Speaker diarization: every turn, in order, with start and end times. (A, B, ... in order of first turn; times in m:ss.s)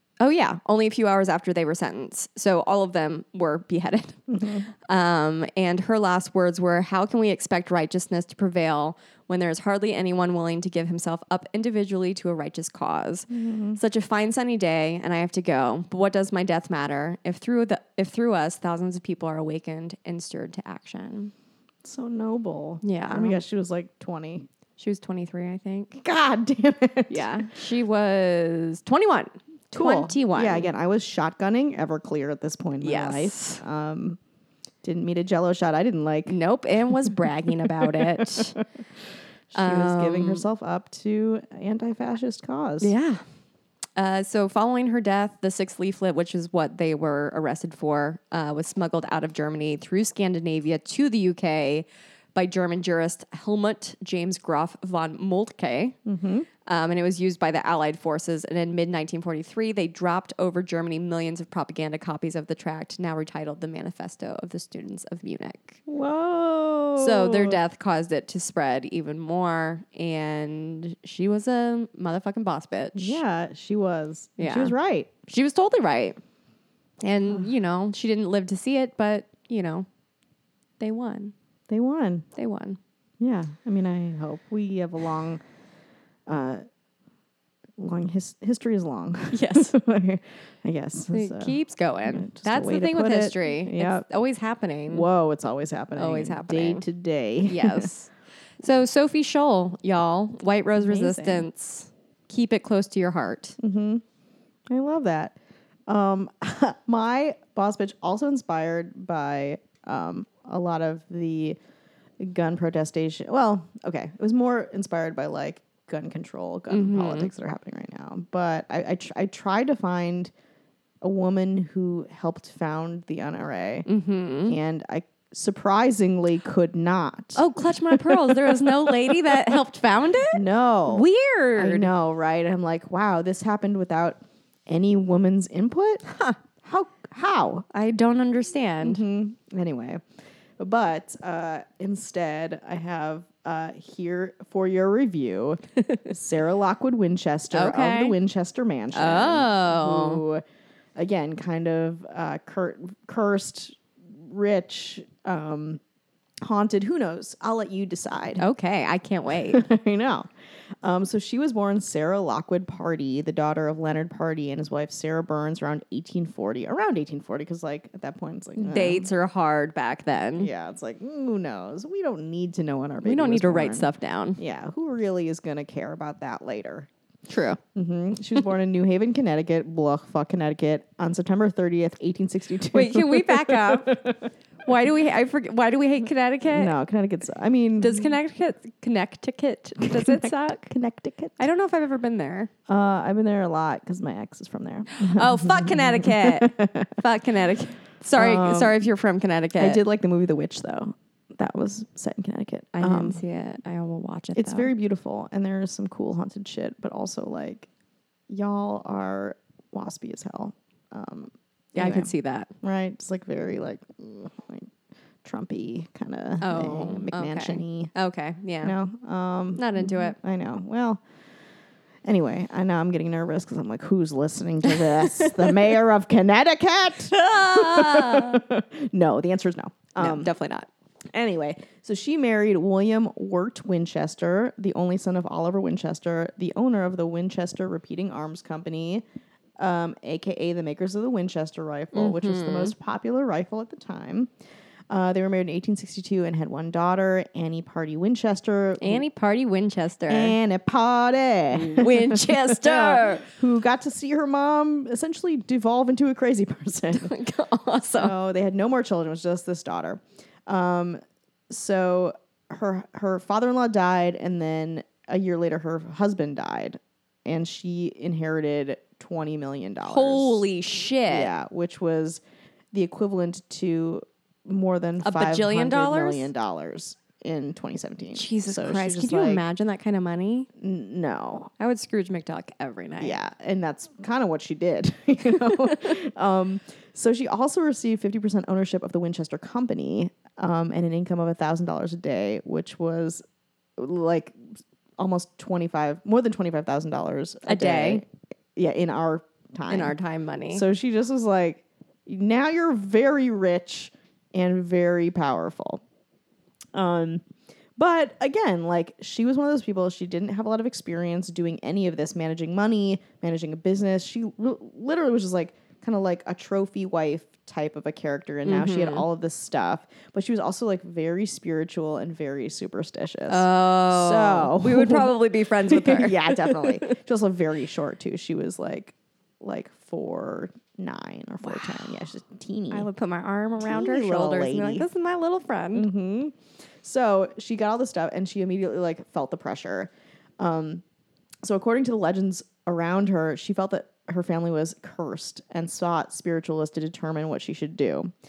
0:00.2-0:21.3 A
0:04.3-0:04.6 B
0:13.3-0:13.8 B
0:21.8-0:24.5 B
0:22.8-0:23.4 A
0:24.8-0:26.0 A
0:26.0-0:27.3 B
0:27.1-0:30.7 A
0:29.7-0:34.2 B
0:32.8-0:33.6 A
0:34.8-0:36.4 B
0:36.3-0:38.6 A
0:37.0-0:38.6 B
0:39.5-0:42.9 B
0:39.5-0:40.4 A
0:42.8-0:43.2 A
0:44.0-0:56.0 A
0:56.0-0:56.4 B
0:56.6-1:05.8 A
1:05.9-1:07.6 B
1:07.0-1:13.2 A
1:13.0-1:15.1 B
1:14.4-1:14.7 A
1:15.2-1:16.2 A
1:17.0-1:19.9 A
1:20.8-1:21.3 A
1:21.7-1:22.2 B
1:22.4-1:22.8 A
1:23.2-1:25.4 B
1:26.3-1:26.6 B
1:27.8-1:34.0 B
1:29.3-1:29.7 A
1:31.1-1:35.1 A
1:34.9-1:37.9 B
1:35.9-1:36.8 A
1:37.4-1:38.1 A
1:38.6-1:43.6 A
1:40.8-1:41.5 B
1:43.6-1:44.0 B
1:44.7-1:45.4 B
1:45.9-1:51.6 B
1:52.2-2:00.3 B
1:56.7-1:57.3 A
2:01.0-2:03.9 B
2:03.8-2:04.6 A
2:04.5-2:09.6 B
2:07.4-2:11.9 A
2:10.3-2:16.0 B
2:16.1-2:16.4 A
2:16.6-2:17.6 B
2:17.7-2:19.0 A
2:18.8-2:20.0 B
2:20.6-2:30.4 B
2:27.5-2:28.2 A
2:28.9-2:30.2 A
2:31.0-2:35.8 B
2:36.4-2:38.4 B
2:38.4-2:39.6 A
2:39.5-2:40.3 B
2:40.8-2:49.1 B
2:48.6-2:50.5 A
2:50.4-2:56.9 B
2:53.0-2:54.4 A
2:57.3-2:57.6 A
2:57.7-3:04.2 B
3:02.7-3:04.0 A
3:04.6-3:06.7 A
3:06.5-3:08.2 B
3:07.8-3:10.7 A
3:09.8-3:11.4 B
3:11.4-3:12.5 A
3:12.7-3:17.0 B
3:14.9-3:19.8 A
3:18.1-3:18.8 B
3:19.6-3:23.2 B
3:22.7-3:24.7 A
3:24.3-3:27.7 B
3:28.3-3:32.1 B
3:31.8-3:32.5 A
3:32.6-3:34.7 B
3:35.2-3:37.9 B
3:36.4-3:38.7 A
3:38.6-3:41.0 B
3:39.6-3:40.2 A
3:42.0-3:50.3 B
3:44.6-3:45.7 A
3:47.1-3:48.4 A
3:50.0-3:50.7 A
3:51.1-3:59.0 B
3:59.6-4:04.3 B
4:01.9-4:02.7 A
4:04.9-4:09.0 B
4:08.8-4:10.4 A
4:10.1-4:17.1 B
4:11.5-4:13.2 A
4:16.9-4:18.1 A
4:17.9-4:30.4 B
4:29.8-4:31.3 A
4:31.1-4:32.2 B
4:32.7-4:39.4 B
4:35.0-4:36.3 A
4:38.1-4:40.5 A
4:40.6-4:41.5 B
4:41.6-4:43.2 A
4:43.0-4:53.2 B
4:53.8-4:54.4 B
4:55.0-4:59.9 B
4:57.4-4:58.0 A
4:59.7-5:00.6 A
5:00.5-5:05.8 B
5:06.7-5:07.2 B
5:07.8-5:32.9 B
5:18.4-5:19.0 A
5:23.3-5:26.9 A
5:31.4-5:32.0 A
5:32.7-5:35.9 A
5:33.6-5:34.8 B
5:35.7-5:40.8 B
5:41.4-5:48.1 B